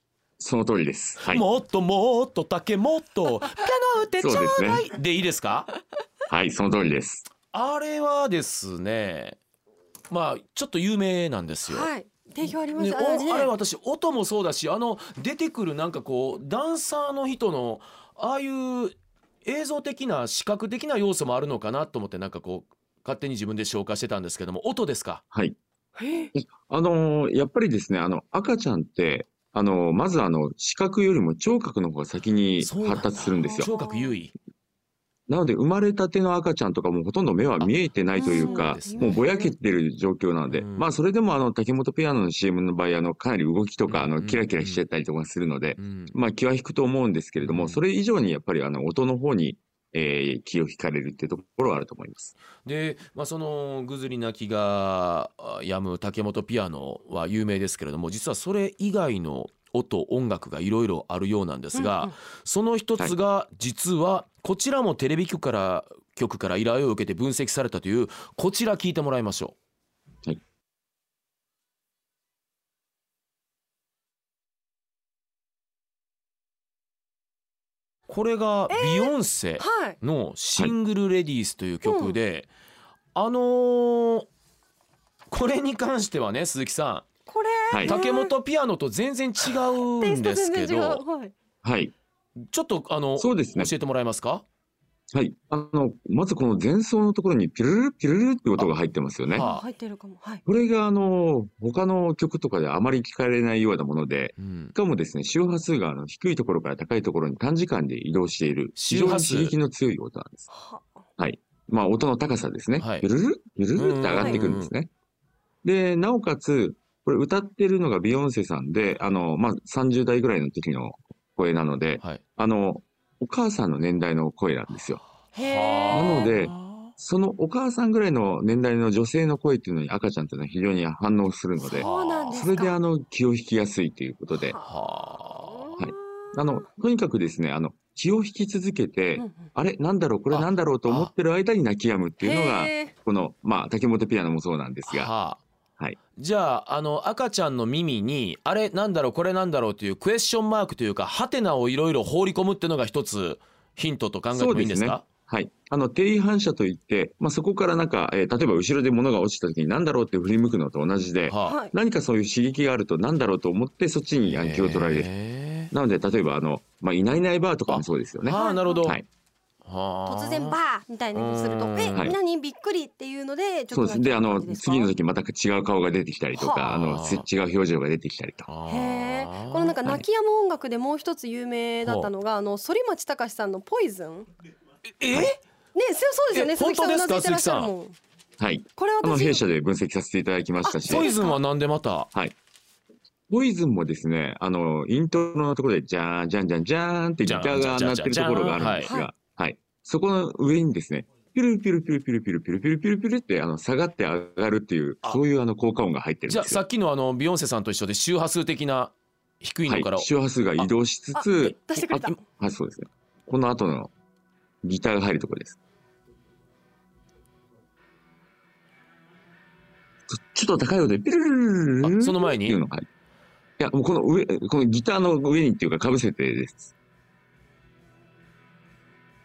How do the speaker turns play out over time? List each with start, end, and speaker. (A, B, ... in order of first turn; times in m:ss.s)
0:00.4-0:01.4 A
0:01.2-0:05.7 B
0:04.2-0:04.9 A
0:06.3-0:07.3 A
0:07.5-0:09.4 B
0:10.1-0:11.9 B
0:11.7-0:13.5 C
0:12.8-0:25.2 B
0:25.3-0:25.6 A
0:26.0-0:26.3 C
0:26.3-0:33.7 A
0:32.6-0:34.3 B
0:33.5-0:34.1 C
0:35.3-0:52.3 A
0:37.6-0:39.2 B
0:38.2-0:39.5 C
0:40.5-0:40.9 B
0:43.9-0:44.8 B
0:45.8-0:46.1 B
0:47.4-0:47.8 B
0:52.6-1:09.6 B
1:01.8-1:02.1 C
1:18.1-1:22.5 B
1:18.7-1:20.0 C
1:21.8-1:22.2 C
1:23.2-1:24.3 B
1:25.3-1:27.1 B
1:27.3-1:28.3 C
1:27.7-1:28.0 A
1:27.8-1:31.0 B
1:30.0-1:31.3 C
1:31.6-1:31.9 A
1:32.5-1:34.4 B
1:33.2-1:33.7 A
1:35.1-1:39.5 A
1:39.3-1:39.6 B
1:39.4-1:40.4 C
1:40.5-1:50.5 A
1:44.4-1:44.7 B
1:48.8-1:49.6 B
1:50.5-1:50.9 C
1:51.2-1:54.9 A
1:52.8-1:53.1 B
1:53.8-1:54.7 B
1:55.6-2:05.0 A
2:05.4-2:06.3 C
2:05.4-2:06.9 B
2:05.9-2:14.6 A
2:11.7-2:12.8 C
2:11.7-2:12.5 B
2:14.6-2:15.7 B
2:15.4-2:16.3 C
2:15.8-2:25.1 A
2:19.2-2:19.5 C
2:20.3-2:21.1 B
2:22.2-2:22.9 C
2:24.9-2:25.4 B
2:26.2-2:35.1 B
2:34.3-2:45.1 A
2:41.3-2:41.6 B
2:41.4-2:41.7 C
2:44.3-2:45.7 B
2:45.7-2:49.0 A
2:47.7-2:49.0 B
2:48.3-2:48.9 C
2:49.6-2:50.6 B
2:50.1-2:54.9 C
2:51.2-2:52.1 B
2:53.7-2:58.5 A
2:56.4-2:56.6 C
2:56.6-2:57.3 B
2:58.5-2:59.8 B
2:58.7-3:04.3 C
3:01.8-3:02.1 B
3:05.0-3:05.4 B
3:05.8-3:08.0 C
3:06.3-3:07.7 B
3:08.4-3:11.1 A
3:08.8-3:09.4 C
3:10.6-3:11.4 C
3:10.8-3:12.1 B
3:13.3-3:26.6 A
3:17.2-3:18.9 B
3:18.8-3:19.1 C
3:26.3-3:30.7 B
3:29.7-3:33.9 A
3:31.2-3:32.2 C
3:34.6-3:35.6 A
3:40.1-3:42.9 A
3:41.8-3:42.6 B
3:43.6-3:46.7 A